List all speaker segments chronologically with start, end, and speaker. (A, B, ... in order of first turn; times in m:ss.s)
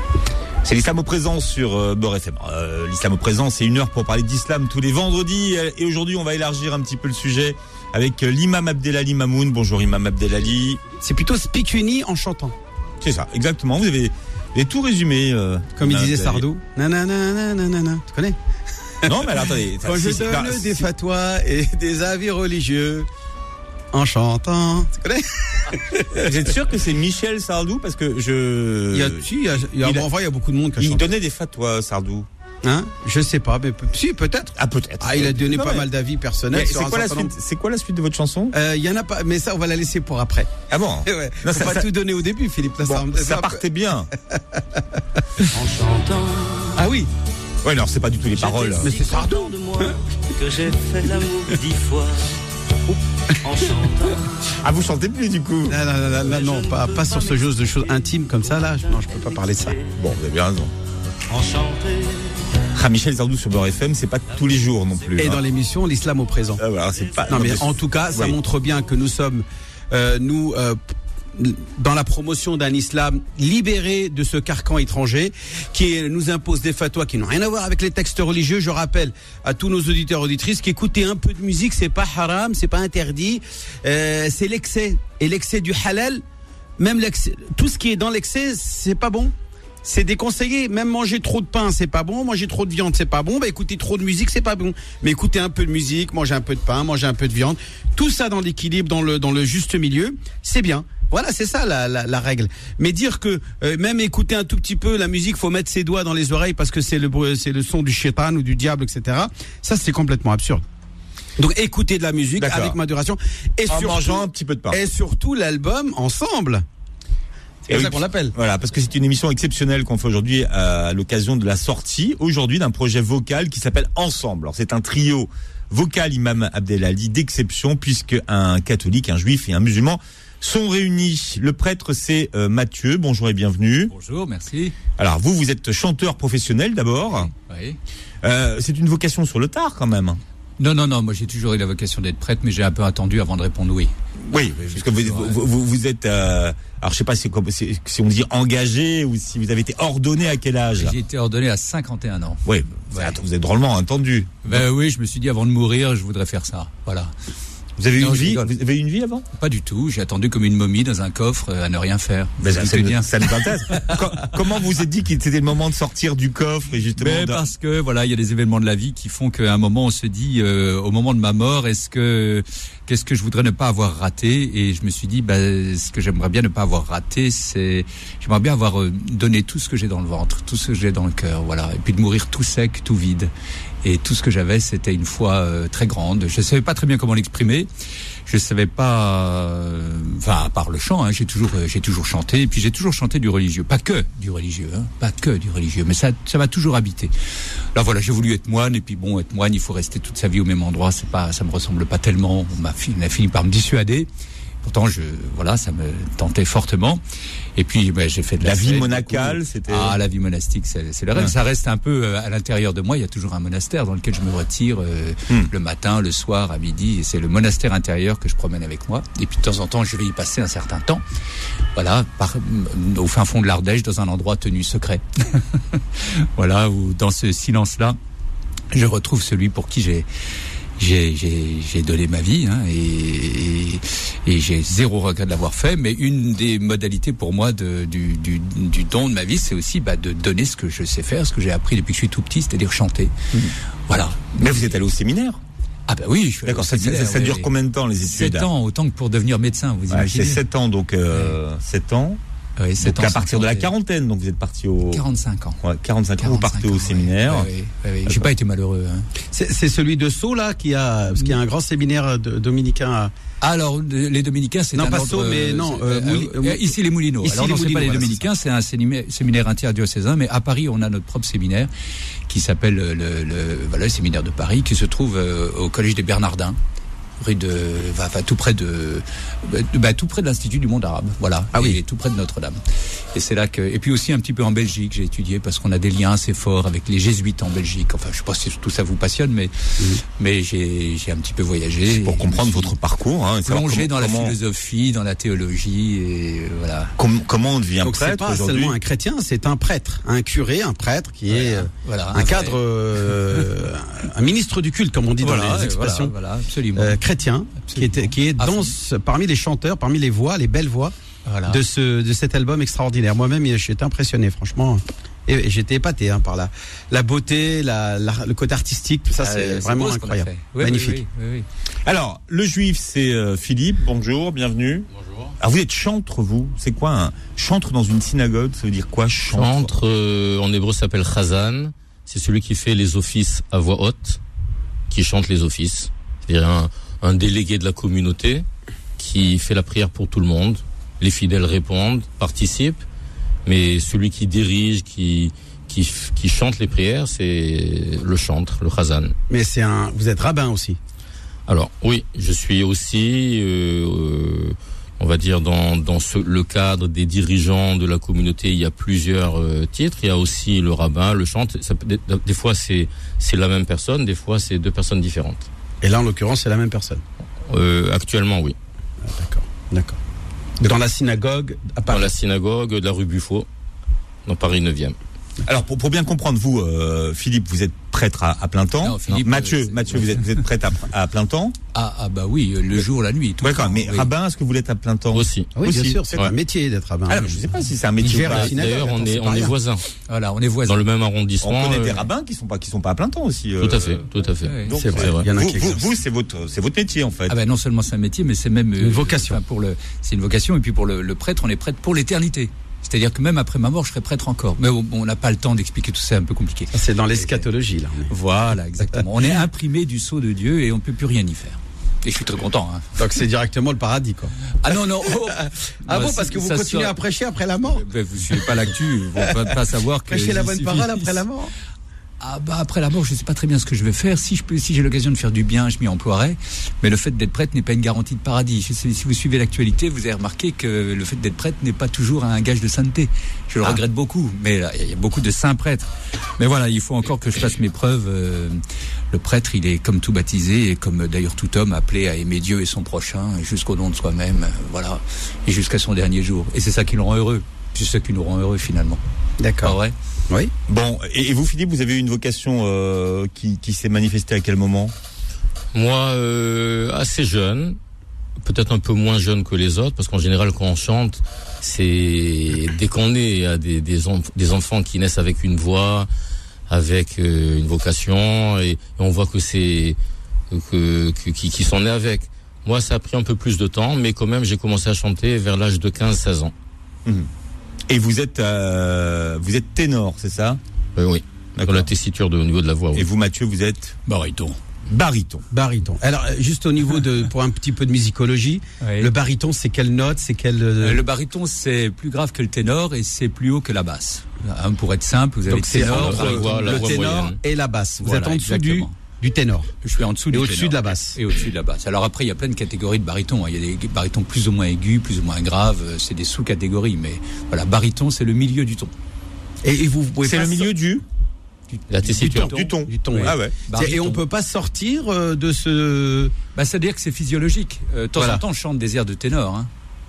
0:00.6-0:10.8 A
0:11.0-0:12.6 B
0:13.0-0:16.4 A
0:15.8-0:18.4 B
0:19.0-0:23.1 B
0:19.0-0:20.8 A
0:23.9-0:26.3 B
0:26.1-0:30.0 A
0:28.9-0:31.0 B
0:30.8-0:32.3 A
0:32.6-0:37.3 B
0:34.6-0:35.8 A
0:36.5-0:38.5 A
0:38.5-0:40.5 B
0:40.7-0:41.9 A
0:41.0-0:43.6 B
0:42.8-0:44.1 A
0:44.2-0:45.4 B
0:45.5-0:46.9 C
0:46.7-0:47.1 B
0:47.6-0:48.9 A
0:48.3-0:54.6 C
0:48.8-0:49.9 B
0:54.6-0:55.8 A
0:55.7-0:59.8 B
0:56.0-1:00.2 C
1:00.0-1:00.7 A
1:01.3-1:02.5 C
1:02.7-1:05.4 A
1:04.3-1:09.0 C
1:05.2-1:06.6 B
1:06.6-1:08.3 A
1:07.3-1:10.8 B
1:11.3-1:26.2 B
1:26.8-1:29.3 B
1:29.8-1:50.6 B
1:51.4-1:56.6 B
1:52.4-1:52.8 A
1:53.7-1:54.8 A
1:57.6-1:58.3 B
1:57.7-2:13.9 A
2:13.9-2:14.7 D
2:15.0-2:17.3 A
2:17.1-2:17.8 D
2:18.2-2:20.2 A
2:20.6-2:23.9 D
2:24.3-2:30.9 A
2:24.6-2:25.4 D
2:30.8-2:33.2 D
2:32.4-2:34.6 A
2:34.4-2:37.1 D
2:37.8-2:39.2 A
2:38.0-2:38.5 D
2:39.3-2:44.3 D
2:42.4-2:47.4 A
2:47.0-3:03.3 D
3:03.8-3:07.7 D
3:08.3-3:17.1 D
3:17.7-3:24.1 D
3:24.6-3:27.0 D
3:27.6-3:41.0 D
3:28.4-3:30.0 A
3:41.7-3:48.0 D
3:48.7-3:50.1 D
3:50.8-4:03.3 D
4:03.9-4:04.5 D
4:04.4-4:05.4 A
4:05.9-4:07.5 D
4:06.4-4:08.5 A
4:08.0-4:10.4 D
4:09.9-4:12.2 A
4:11.1-4:11.4 D
4:12.6-4:13.7 D
4:12.8-4:15.0 A
4:14.9-4:15.6 D
4:15.6-4:17.5 A
4:16.2-4:19.1 D
4:19.3-4:23.1 B
4:23.4-4:31.7 D
4:24.7-4:28.2 B
4:32.3-4:36.6 D
4:37.2-4:42.6 D
4:41.5-4:41.8 B
4:43.1-4:52.7 D
4:51.9-4:54.4 A
4:53.4-4:56.9 D
4:57.0-4:58.7 A
4:57.8-5:06.1 B
5:01.3-5:02.6 D
5:05.2-5:07.0 D
5:06.7-5:10.9 B
5:07.6-5:08.7 D
5:11.2-5:11.6 D
5:11.5-5:21.0 B
5:19.2-5:21.5 D
5:21.8-5:24.9 A
5:24.9-5:25.3 E
5:25.4-5:29.7 A
5:29.3-5:34.2 E
5:34.9-5:38.4 E
5:39.0-5:42.8 E
5:43.4-5:49.1 E
5:49.3-5:50.8 B
5:51.5-6:05.5 E
6:05.8-6:07.0 B
6:07.5-6:08.6 E
6:09.0-6:10.0 B
6:10.6-6:12.1 B
6:11.9-6:13.5 E
6:14.2-6:15.0 E
6:15.4-6:21.6 A
6:18.8-6:20.4 D
6:21.7-6:24.1 D
6:23.4-6:26.3 A
6:25.1-6:25.5 E
6:25.6-6:27.4 B
6:27.1-6:28.6 A
6:28.0-6:29.5 B
6:28.0-6:29.8 E
6:30.1-6:30.8 D
6:30.7-6:32.1 E
6:31.4-6:34.0 A
6:33.6-6:35.3 E
6:34.4-6:34.8 D
6:34.6-6:37.4 A
6:34.8-6:35.8 B
6:37.3-6:47.4 D
6:38.8-6:39.4 B
6:46.7-6:48.1 B
6:48.1-6:53.0 D
6:53.0-6:54.3 B
6:54.6-6:57.0 D
6:55.2-6:57.8 B
6:57.7-7:01.2 D
7:00.1-7:01.5 B
7:02.2-7:18.6 D
7:19.1-7:29.0 D
7:29.4-7:29.8 B
7:29.6-7:29.9 D
7:30.7-7:34.9 A
7:35.7-7:37.8 E
7:38.4-7:46.1 E
7:46.7-7:50.0 E
7:50.5-7:56.5 E
7:57.9-8:00.6 A
8:01.0-8:03.1 E
8:01.6-8:01.9 A
8:02.9-8:04.0 A
8:04.1-8:04.6 D
8:04.9-8:05.4 A
8:05.5-8:11.0 B
8:08.8-8:09.1 D
8:10.8-8:17.0 D
8:15.5-8:19.7 B
8:15.8-8:17.4 E
8:18.0-8:18.9 D
8:19.8-8:28.9 D
8:20.3-8:21.2 B
8:29.6-8:30.7 B
8:30.2-8:31.0 A
8:31.7-8:34.2 D
8:31.9-8:32.5 E
8:32.0-8:36.3 B
8:32.4-8:33.5 A
8:36.5-8:39.7 D
8:38.2-8:38.4 B